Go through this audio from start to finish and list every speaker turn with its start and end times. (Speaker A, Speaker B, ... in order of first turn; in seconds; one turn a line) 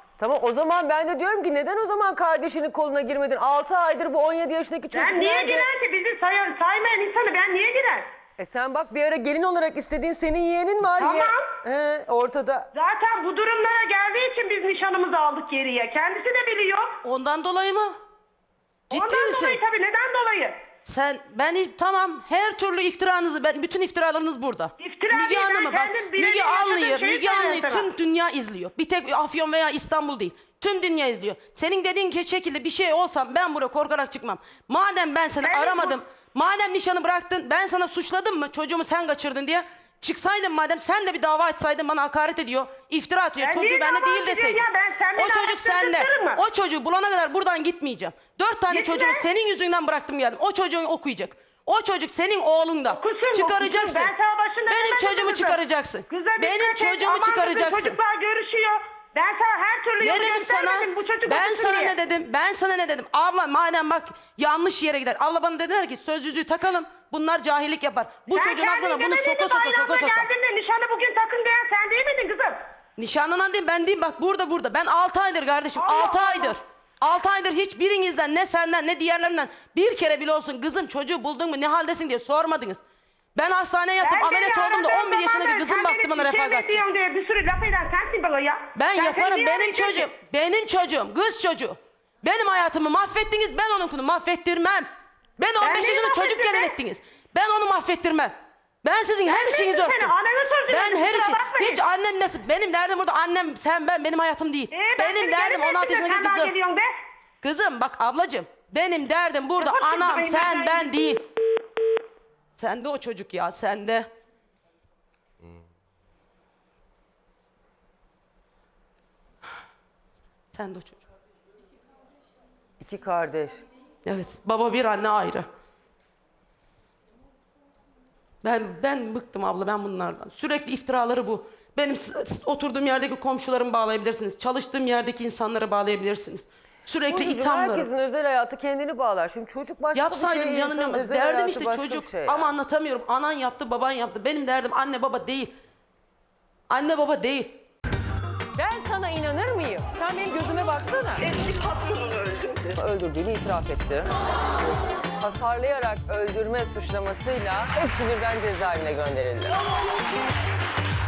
Speaker A: 0.2-5.7
Speaker B: 4.9-8.1
Speaker A: 8.4-12.7
Speaker B: 11.0-11.4
Speaker B: 12.7-16.9
Speaker C: 17.0-17.9
Speaker C: 18.9-19.6
Speaker B: 18.9-20.6
Speaker C: 20.8-44.6
Speaker B: 24.8-27.9
Speaker B: 35.4-36.0
Speaker B: 43.4-46.4
Speaker C: 45.2-54.1
Speaker B: 48.7-49.3
Speaker B: 52.9-62.0
Speaker C: 54.7-58.0
Speaker C: 60.0-70.3
Speaker B: 68.3-72.6
Speaker C: 73.0-82.8
Speaker B: 75.8-76.6
Speaker C: 83.3-86.8
Speaker B: 84.0-90.1
Speaker C: 88.8-100.1
Speaker B: 95.6-96.8
Speaker B: 99.3-101.8
Speaker C: 100.7-106.5
Speaker B: 104.7-106.9
Speaker C: 107.4-111.2
Speaker B: 109.6-111.2
Speaker C: 112.6-114.1
Speaker C: 120.5-121.0
Speaker A: 122.8-123.6
Speaker C: 124.0-125.5
Speaker C: 128.4-137.9
Speaker A: 137.1-142.5
Speaker C: 139.9-145.5
Speaker C: 146.7-147.6
Speaker A: 148.6-151.3
Speaker B: 151.4-152.3
Speaker A: 152.7-154.1
Speaker A: 155.2-159.6